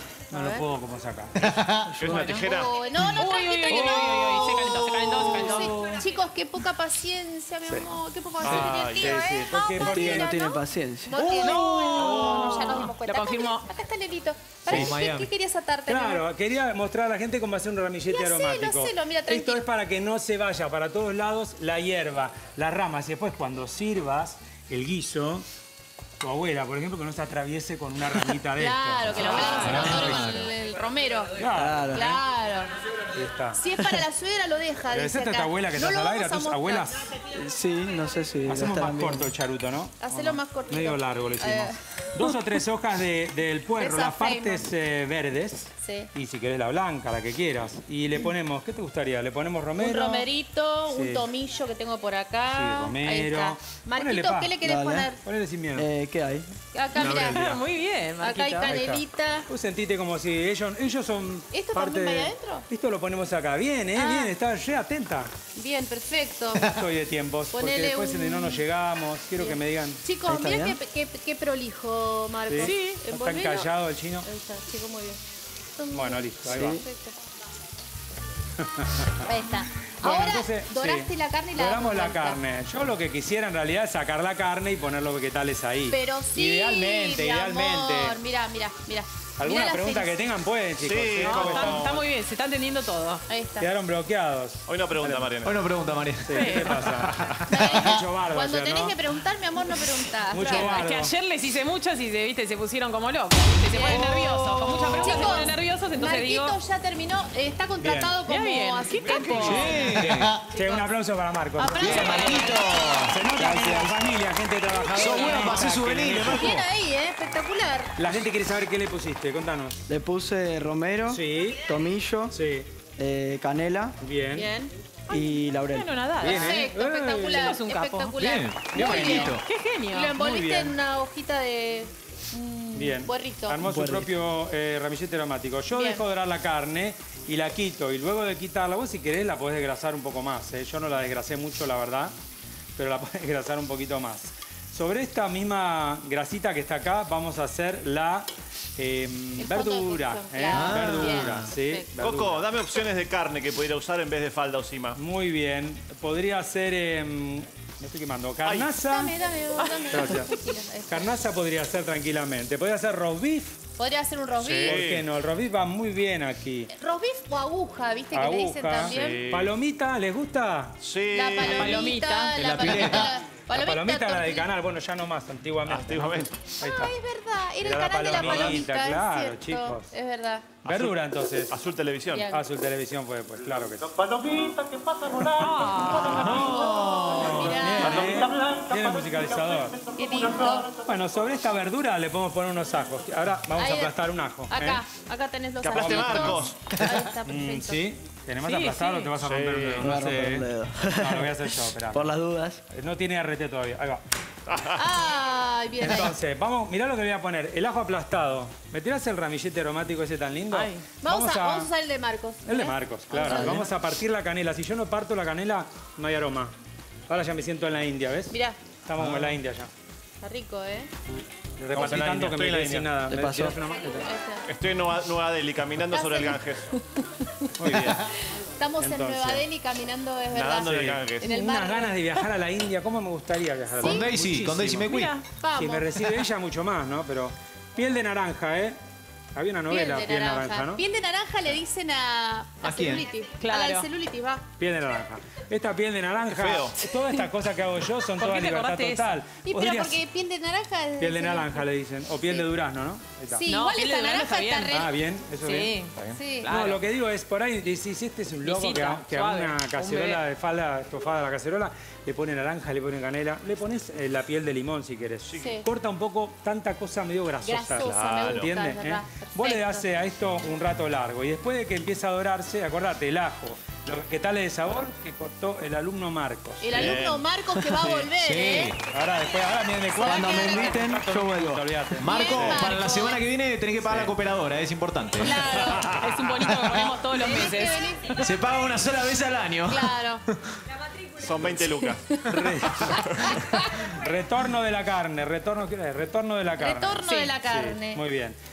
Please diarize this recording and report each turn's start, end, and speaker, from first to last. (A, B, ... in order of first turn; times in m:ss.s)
0:00.3-0:02.4 A
0:00.3-0:00.6 B
0:01.4-0:01.7 C
0:02.0-0:02.8 D
0:02.0-0:16.2 B
0:03.2-0:06.0 E
0:03.7-0:04.2 A
0:08.4-0:09.4 D
0:08.4-0:08.8 C
0:08.5-0:10.3 A
0:09.8-0:11.5 F
0:11.3-0:12.8 A
0:11.3-0:13.7 E
0:14.6-0:15.3 C
0:14.7-0:15.0 A
0:15.9-0:25.4 A
0:18.1-0:19.6 B
0:26.2-0:30.3 A
0:28.6-0:31.4 B
0:29.2-0:30.5 C
0:31.4-0:32.2 A
0:31.5-0:32.1 F
0:31.9-0:32.7 B
0:33.1-0:33.6 A
0:33.5-0:37.0 B
0:34.9-0:37.0 A
0:37.3-0:39.3 F
0:38.4-0:50.3 A
0:40.0-0:41.8 B
0:43.8-0:44.6 B
0:45.8-0:46.1 B
0:49.8-0:55.2 B
0:50.9-0:51.2 A
0:52.5-0:54.6 A
0:54.6-0:55.1 F
0:55.2-0:55.9 A
0:55.8-0:56.5 F
0:56.7-0:57.6 B
0:56.9-0:58.7 E
0:57.0-0:57.6 A
0:58.2-0:59.4 B
0:58.6-1:05.3 A
1:01.5-1:02.6 B
1:04.0-1:04.3 B
1:05.6-1:06.7 B
1:06.6-1:10.0 A
1:07.5-1:08.6 B
1:09.4-1:13.7 B
1:10.3-1:10.8 F
1:12.5-1:14.3 A
1:12.6-1:12.9 E
1:14.2-1:15.2 B
1:15.8-1:17.1 B
1:15.9-1:16.8 A
1:16.5-1:16.8 F
1:18.8-1:19.2 A
1:19.2-1:22.4 B
1:20.0-1:28.2 A
1:25.9-1:30.2 B
1:29.4-1:32.0 A
1:30.8-1:32.0 D
1:31.2-1:33.2 E
1:33.3-1:33.7 B
1:33.6-1:35.3 A
1:34.7-1:35.6 D
1:35.4-1:37.5 C
1:36.2-1:39.0 A
1:36.3-1:36.8 E
1:37.5-1:40.9 B
1:40.3-1:41.1 A
1:40.4-1:46.6 E
1:43.7-1:50.0 B
1:44.7-1:45.1 C
1:47.8-1:48.2 A
1:48.3-1:49.8 E
1:49.4-1:56.6 A
1:49.4-1:50.4 C
1:51.6-1:53.2 B
1:51.8-1:53.1 C
1:53.3-1:54.0 F
1:54.8-1:55.6 B
1:54.9-1:56.6 C
1:56.3-1:57.9 B
1:58.0-1:59.8 A
1:59.9-2:02.4 F
2:01.1-2:01.6 A
2:02.3-2:02.7 A
2:03.0-2:03.9 F
2:04.0-2:04.5 A
2:04.3-2:04.7 B
2:05.1-2:06.7 E
2:05.1-2:05.6 A
2:05.5-2:05.9 F
2:06.2-2:07.6 A
2:06.2-2:09.4 B
2:07.2-2:10.2 E
2:08.2-2:09.4 C
2:09.9-2:13.6 B
2:10.1-2:10.7 A
2:12.7-2:22.1 A
2:13.6-2:14.1 F
2:15.7-2:16.0 B
2:22.8-2:32.5 A
2:29.4-2:31.9 B
2:30.5-2:31.5 C
2:32.0-2:35.0 D
2:35.0-2:39.1 A
2:38.4-2:38.8 D
2:38.8-2:41.1 B
2:39.6-2:40.2 E
2:39.9-2:40.3 A
2:40.9-2:43.6 A
2:43.8-2:44.8 B
2:44.4-2:45.1 D
2:44.6-2:46.7 A
2:46.7-2:49.3 B
2:48.1-2:50.8 A
2:48.8-2:49.5 D
2:50.8-2:51.9 D
2:51.1-2:54.5 B
2:51.4-2:52.7 E
2:52.4-2:53.1 C
2:53.5-2:56.9 A
2:55.6-2:56.5 D
2:56.6-3:00.6 B
2:57.6-2:59.9 A
2:58.1-2:58.6 D
3:00.6-3:01.6 A
3:00.6-3:02.3 D
3:02.1-3:02.4 B
3:02.3-3:04.0 A
3:04.0-3:05.0 D
3:05.3-3:06.4 E
3:06.0-3:07.8 C
3:06.0-3:08.1 B
3:07.1-3:09.9 A
3:07.8-3:08.6 D
3:09.9-3:10.7 B
3:10.7-3:14.8 A
3:13.6-3:13.9 B
3:14.5-3:17.8 B
3:15.6-3:16.5 A
3:15.7-3:16.7 D
3:17.2-3:22.1 A
3:18.4-3:19.1 E
3:19.2-3:19.9 D
3:19.8-3:22.6 F
3:22.7-3:24.0 A
3:24.5-3:24.8 D
3:24.8-3:26.1 B
3:25.8-3:31.7 A
3:30.5-3:30.8 E
3:31.0-3:33.7 B
3:32.4-3:36.5 A
3:33.2-3:33.6 F
3:37.1-3:39.7 A
3:38.3-3:38.6 B
3:40.2-3:40.9 B
3:41.6-3:44.1 A
3:41.7-3:43.0 D
3:43.1-3:43.6 F
3:44.0-3:44.4 B
3:44.5-3:46.6 D
3:45.9-3:46.4 B
3:47.6-3:48.0 A
3:47.7-3:52.0 B
3:48.8-3:49.4 A
3:50.3-3:51.3 D
3:51.2-3:54.9 A
3:53.8-3:54.1 B
3:53.8-3:55.2 C
3:54.8-3:55.2 E
3:55.4-3:56.1 B
3:55.5-3:58.8 A
3:59.3-4:00.8 A
3:59.7-4:04.4 B
4:02.6-4:03.1 C
4:03.4-4:03.9 E
4:04.6-4:10.0 A
4:06.3-4:06.8 D
4:08.2-4:09.2 E
4:09.4-4:11.6 B
4:11.0-4:13.5 A
4:13.3-4:14.9 B
4:13.4-4:14.9 E
4:14.7-4:15.7 A
4:15.4-4:16.8 E
4:16.1-4:16.5 B
4:16.4-4:37.0 A
4:18.4-4:20.2 E
4:25.3-4:25.6 D
4:25.4-4:25.6 B
4:27.4-4:29.8 B
4:28.1-4:28.5 D
4:36.6-4:38.7 B
4:36.7-4:37.2 D
4:37.8-4:38.0 A
4:38.2-4:38.8 C
4:38.9-4:42.6 A
4:39.9-4:40.8 B
4:40.0-4:41.7 F
4:42.0-4:43.2 B
4:42.0-4:45.4 C
4:42.3-4:42.6 D
4:43.8-4:44.1 A
4:45.2-4:46.0 B
4:45.2-4:47.8 E
4:45.6-4:46.5 A
4:47.1-4:48.3 B
4:48.2-4:50.5 C
4:49.7-4:50.2 B
4:51.2-4:52.2 D
4:52.3-4:58.4 A
4:52.8-4:53.4 D
4:56.6-4:58.0 B